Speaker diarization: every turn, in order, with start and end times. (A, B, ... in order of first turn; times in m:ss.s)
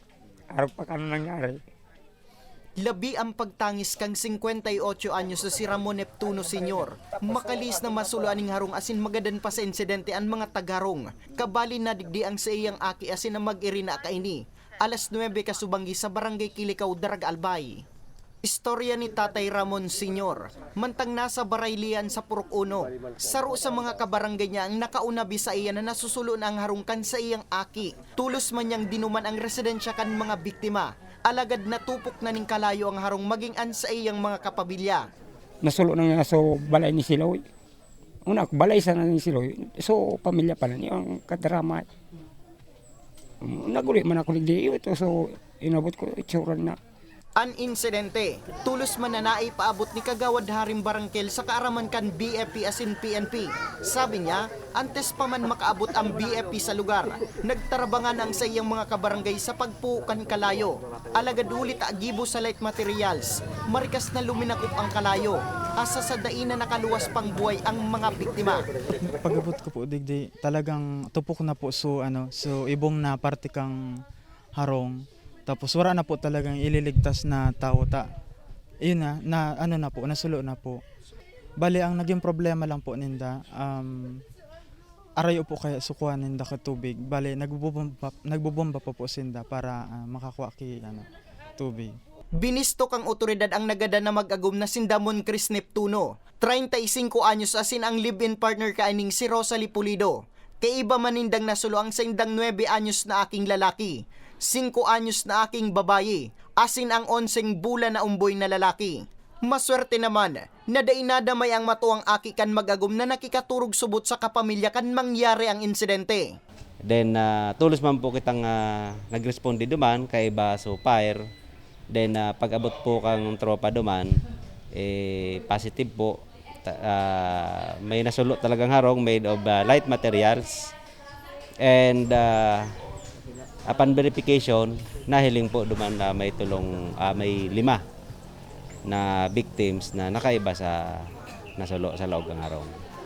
0:00.5-0:01.6 A
0:02.8-0:17.8 B
0:18.4-0:35.1 B
0:35.6-0:37.4 A
0:38.3-0:41.9 A
0:43.4-0:46.8 A
0:47.4-1:08.7 B
1:09.0-1:13.8 C
1:14.6-1:18.1 C
1:18.8-1:20.8 C
1:21.6-1:24.2 C
1:25.2-1:31.1 C
1:31.6-1:32.0 C
1:32.4-1:56.3 B
1:56.8-2:01.2 D
2:01.9-2:04.2 D
2:04.7-2:10.7 D
2:11.6-2:12.8 D
2:13.7-2:17.8 D
2:18.9-2:22.8 D